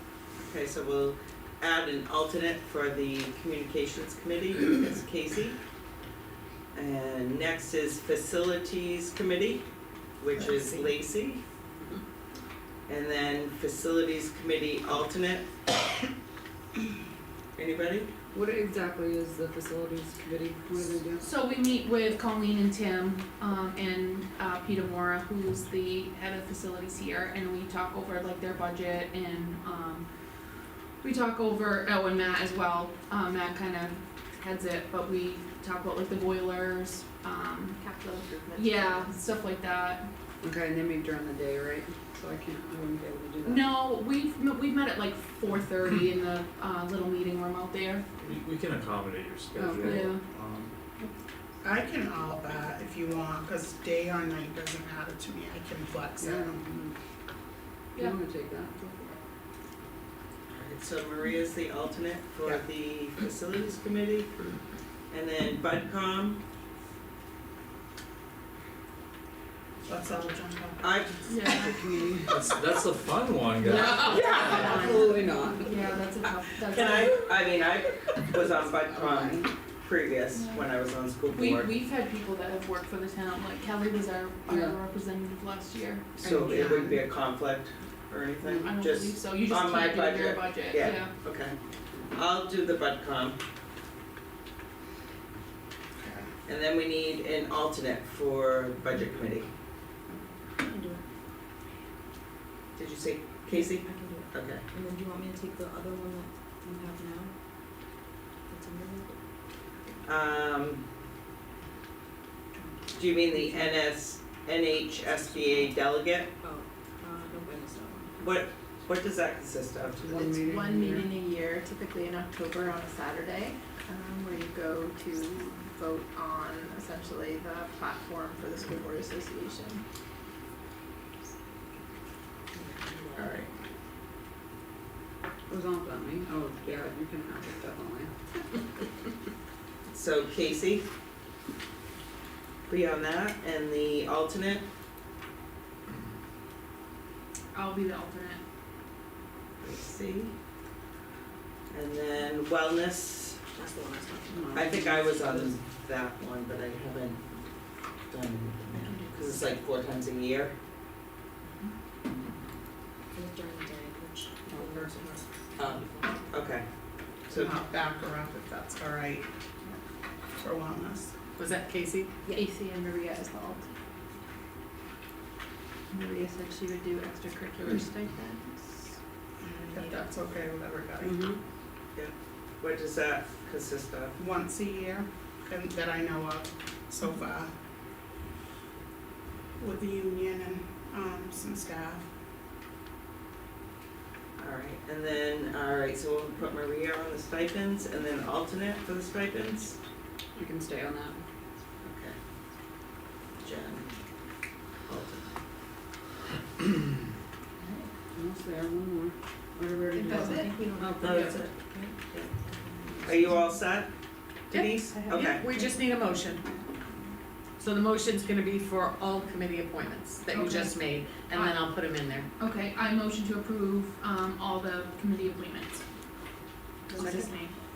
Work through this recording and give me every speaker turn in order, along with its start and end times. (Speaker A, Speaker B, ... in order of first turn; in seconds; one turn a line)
Speaker A: 0.4-5.6
Speaker A: 6.7-9.7
Speaker A: 10.2-11.4
Speaker A: 12.9-15.5
Speaker A: 17.6-18.1
Speaker B: 18.3-21.3
Speaker C: 21.2-30.1
Speaker C: 31.0-37.8
Speaker D: 37.8-39.1
Speaker C: 38.5-40.1
Speaker B: 40.4-43.7
Speaker C: 43.4-48.0
Speaker E: 48.2-50.7
Speaker B: 49.5-50.2
Speaker C: 49.8-50.2
Speaker F: 51.6-56.6
Speaker B: 56.2-56.9
Speaker B: 58.0-59.1
Speaker A: 60.5-64.3
Speaker A: 65.1-66.4
Speaker F: 69.9-71.5
Speaker A: 70.8-71.2
Speaker C: 71.3-71.9
Speaker B: 71.6-72.5
Speaker E: 72.3-74.9
Speaker C: 73.6-77.2
Speaker B: 73.8-75.8
Speaker A: 76.7-81.7
Speaker B: 78.3-79.5
Speaker C: 80.3-80.7
Speaker C: 81.3-86.1
Speaker B: 84.5-84.8
Speaker A: 86.2-91.6
Speaker B: 88.4-88.8
Speaker C: 88.6-91.1
Speaker A: 92.1-93.4
Speaker F: 96.0-96.3
Speaker A: 96.5-99.5
Speaker G: 100.5-101.1
Speaker A: 102.8-104.6
Speaker G: 103.4-107.3
Speaker G: 108.5-109.2
Speaker A: 110.0-110.8
Speaker G: 112.5-113.8
Speaker A: 113.0-116.3
Speaker G: 115.2-115.8
Speaker G: 116.4-118.2
Speaker A: 118.2-120.2
Speaker B: 120.0-121.2
Speaker D: 120.2-129.8
Speaker G: 132.5-133.4
Speaker A: 133.2-133.5
Speaker B: 135.5-138.1
Speaker A: 139.9-140.9
Speaker A: 142.7-144.7
Speaker C: 147.5-148.4
Speaker A: 149.6-150.3
Speaker A: 151.7-153.5
Speaker G: 153.6-154.5
Speaker B: 154.3-155.6
Speaker A: 154.5-157.2
Speaker A: 158.1-160.6
Speaker G: 158.8-159.4
Speaker G: 163.1-166.4
Speaker B: 164.5-165.1
Speaker A: 165.6-166.7
Speaker A: 167.3-167.6
Speaker F: 167.3-169.3
Speaker F: 170.4-171.1
Speaker H: 171.4-172.2
Speaker D: 172.3-173.7
Speaker D: 175.9-178.9
Speaker F: 179.4-181.3
Speaker B: 181.0-181.4
Speaker A: 181.9-184.2
Speaker F: 184.2-187.5
Speaker F: 189.6-192.1
Speaker A: 194.4-199.8
Speaker B: 200.4-201.2
Speaker A: 201.8-202.2
Speaker A: 203.4-204.0
Speaker A: 204.9-205.3
Speaker B: 208.2-211.4
Speaker G: 209.9-213.4
Speaker A: 211.0-211.5
Speaker A: 212.1-212.4
Speaker A: 213.0-213.9
Speaker A: 214.5-215.4
Speaker H: 214.5-216.5
Speaker H: 217.6-222.3
Speaker C: 220.3-221.6
Speaker C: 222.4-225.8
Speaker C: 226.9-227.6
Speaker H: 227.0-227.3